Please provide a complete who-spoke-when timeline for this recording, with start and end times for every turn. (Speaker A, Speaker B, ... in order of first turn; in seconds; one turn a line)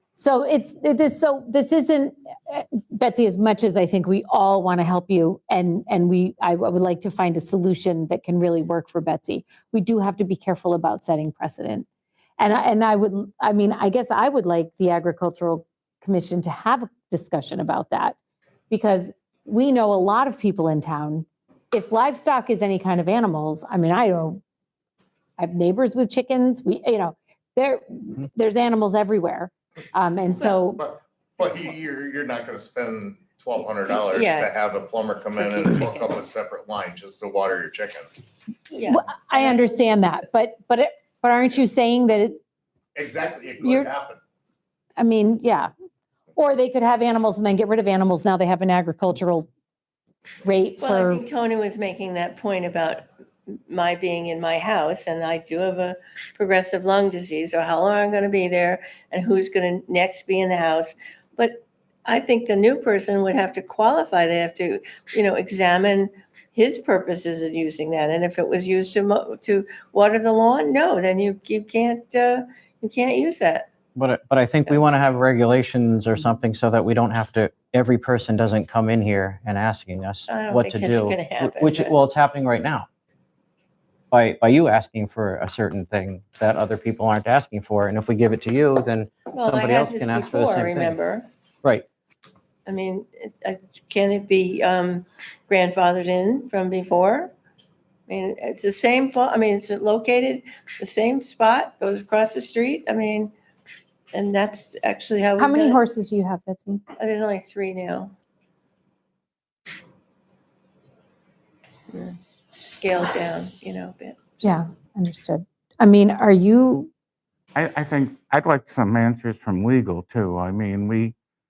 Speaker A: 0.2-11.9
Speaker A: 12.4-18.2
Speaker A: 18.7-24.4
Speaker A: 25.4-30.8
Speaker B: 30.8-38.2
Speaker C: 33.9-34.5
Speaker C: 35.4-36.2
Speaker C: 38.7-39.6
Speaker A: 38.9-42.4
Speaker B: 43.0-44.2
Speaker A: 43.6-43.9
Speaker A: 45.0-45.7
Speaker A: 46.4-49.5
Speaker A: 50.4-51.2
Speaker C: 50.8-53.1
Speaker C: 53.7-73.7
Speaker D: 74.0-82.9
Speaker C: 80.3-82.0
Speaker D: 84.1-91.0
Speaker C: 89.3-91.3
Speaker C: 92.7-97.3
Speaker C: 98.1-103.3
Speaker C: 104.1-105.8
Speaker A: 105.4-106.8
Speaker C: 107.0-108.1
Speaker C: 111.9-114.6
Speaker A: 114.4-116.9
Speaker E: 117.5-121.2